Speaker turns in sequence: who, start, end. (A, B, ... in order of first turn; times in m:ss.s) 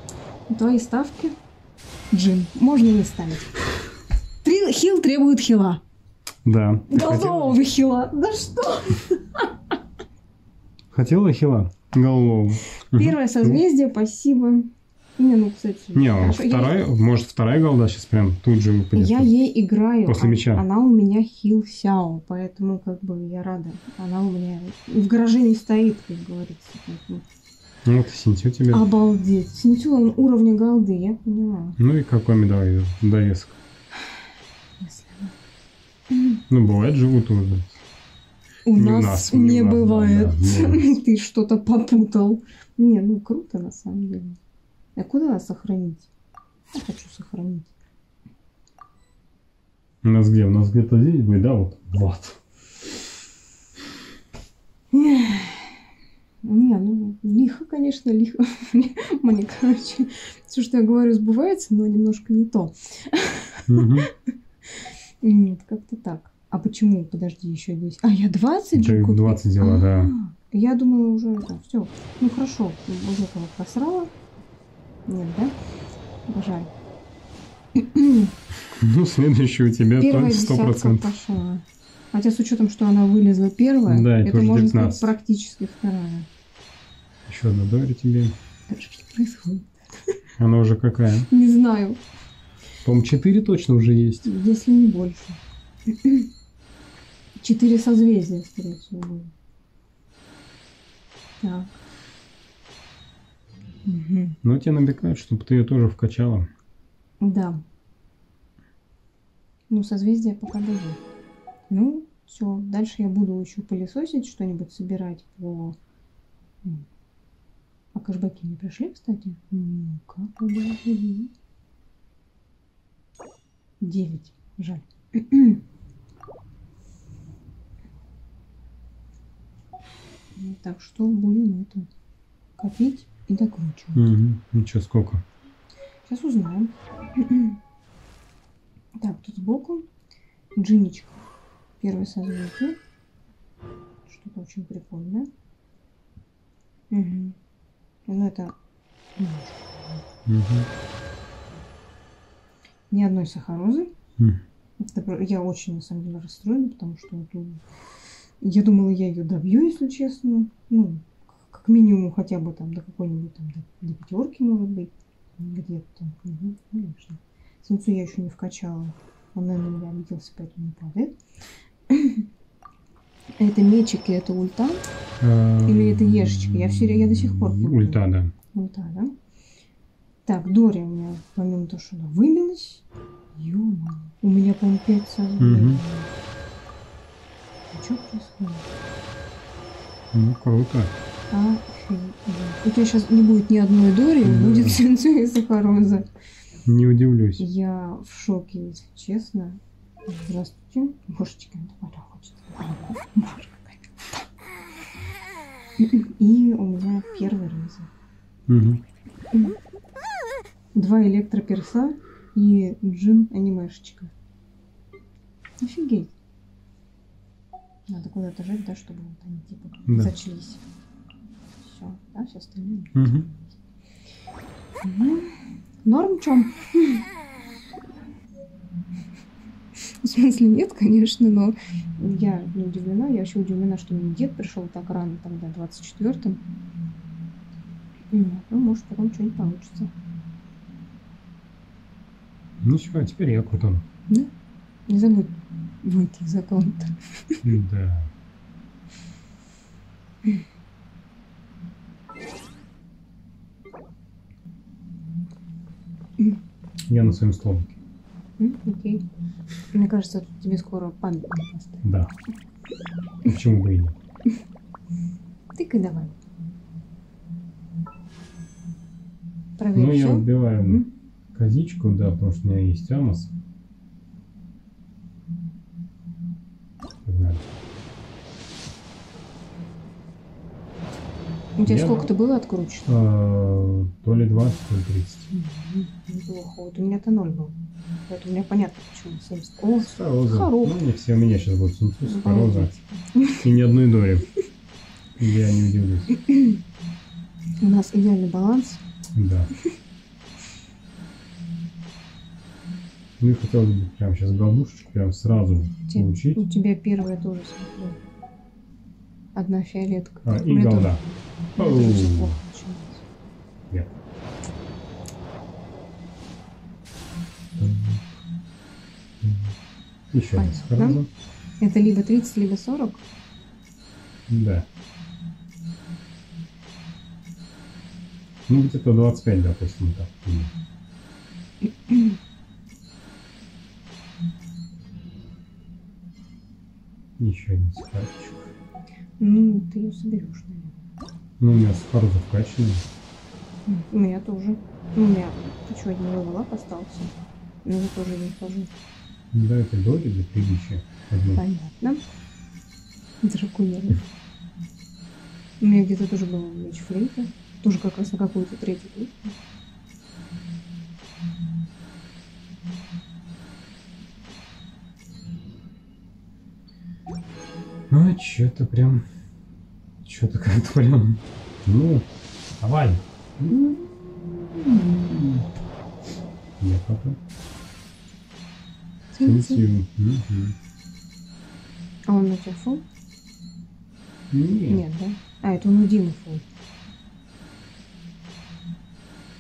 0:00.5-0:01.4 A
0:02.1-0:03.5 A
0:04.4-0:05.8 A
0:06.4-0:07.6 B
0:06.9-0:09.5 A
0:10.9-0:13.6 B
0:12.9-0:16.9 A
0:15.9-0:19.4 B
0:18.9-0:27.2 A
0:20.1-0:20.6 B
0:27.9-0:28.8 B
0:28.7-0:31.8 A
0:31.8-0:33.6 B
0:34.8-0:35.3 A
0:36.1-0:36.4 A
0:36.5-0:37.8 B
0:38.7-0:44.4 A
0:38.7-0:41.0 B
0:45.0-0:46.1 A
0:46.7-0:47.7 A
0:50.0-0:52.4 B
0:54.9-0:55.8 A
0:56.4-1:03.7 A
1:03.7-1:04.1 B
1:05.2-1:14.1 A
1:08.7-1:10.1 B
1:15.1-1:15.5 A
1:16.3-1:16.7 A
1:17.8-1:18.3 A
1:18.7-1:21.1 B
1:20.0-1:26.3 A
1:23.9-1:25.1 B
1:27.3-1:28.4 B
1:28.7-1:29.7 A
1:30.4-1:31.3 B
1:31.3-1:32.0 A
1:32.8-1:34.3 B
1:34.2-1:35.4 A
1:36.0-1:36.3 A
1:37.4-1:39.3 A
1:41.4-1:41.7 A
1:43.9-1:44.4 A
1:44.4-1:46.5 B
1:47.2-1:47.6 A
1:49.7-1:51.0 A
1:51.7-1:55.8 A
1:57.9-2:01.3 A
2:03.8-2:05.6 A
2:10.4-2:11.9 A
2:12.6-2:14.1 A
2:14.0-2:15.2 B
2:16.1-2:17.6 A
2:19.0-2:19.8 A
2:20.6-2:21.2 A
2:21.8-2:22.8 A
2:24.1-2:25.3 A
2:26.9-2:27.4 A
2:28.1-2:28.6 A
2:29.2-2:30.0 A
2:30.3-2:30.7 B
2:32.9-2:33.9 A
2:34.8-2:37.6 A
2:38.4-2:51.2 A
2:51.9-2:52.2 A
2:53.4-2:54.8 A
2:55.2-2:58.3 B
2:55.6-2:58.0 A
2:58.5-2:59.1 A
3:00.2-3:06.1 A
3:05.4-3:05.8 B
3:07.7-3:08.6 A
3:10.1-3:10.9 B
3:11.3-3:16.1 A
3:14.2-3:14.8 B
3:16.7-3:17.4 B
3:17.4-3:24.2 A
3:25.8-3:27.9 A
3:28.5-3:28.8 B
3:30.7-3:34.1 A
3:35.6-3:36.1 A
3:37.9-3:40.6 A
3:39.9-3:40.1 B
3:41.6-3:43.4 A
3:43.0-3:43.3 B
3:44.8-3:47.0 A
3:50.0-3:56.4 A
3:58.1-3:59.9 A
4:02.6-4:03.8 B
4:04.9-4:07.4 A
4:07.4-4:08.1 B
4:16.9-4:17.8 B
4:18.4-4:19.0 A
4:19.7-4:21.8 A
4:21.8-4:22.1 B
4:23.2-4:24.0 B
4:25.6-4:26.2 A
4:29.6-4:30.9 A
4:29.7-4:30.8 B
4:31.3-4:33.3 B
4:37.0-4:37.4 B
4:41.6-4:42.9 A
4:41.6-4:42.1 B
4:42.9-4:45.3 B
4:45.3-4:47.6 A
4:48.1-4:50.8 A
4:49.8-4:52.7 B
4:52.0-4:53.5 A
4:53.4-4:54.3 B
4:55.2-4:56.1 B
4:56.2-4:56.6 A
4:57.6-4:58.8 A
4:59.1-4:59.5 B
5:03.2-5:06.4 B
5:05.9-5:08.0 A
5:09.4-5:11.0 A
5:10.2-5:11.0 B
5:11.6-5:13.0 A
5:11.6-5:12.4 B
5:13.7-5:14.0 B
5:17.6-5:18.2 B
5:19.2-5:19.5 B
5:20.1-5:21.1 B
5:20.3-5:21.0 A
5:21.6-5:23.0 A
5:24.3-5:24.7 B
5:28.5-5:30.5 B
5:37.2-5:38.5 B
5:39.2-5:40.8 A
5:41.4-5:42.8 B
5:43.7-5:47.1 A
5:47.6-5:48.7 A
5:49.3-5:51.4 B
5:51.4-5:52.0 A
5:53.2-5:54.0 A
5:55.6-5:59.2 A
6:07.9-6:09.1 B
6:10.0-6:12.1 B
6:12.6-6:13.6 B
6:13.6-6:15.1 A
6:16.6-6:17.2 B
6:19.1-6:19.6 A
6:19.2-6:20.6 B
6:22.1-6:22.8 A
6:24.3-6:24.8 B
6:24.7-6:26.4 A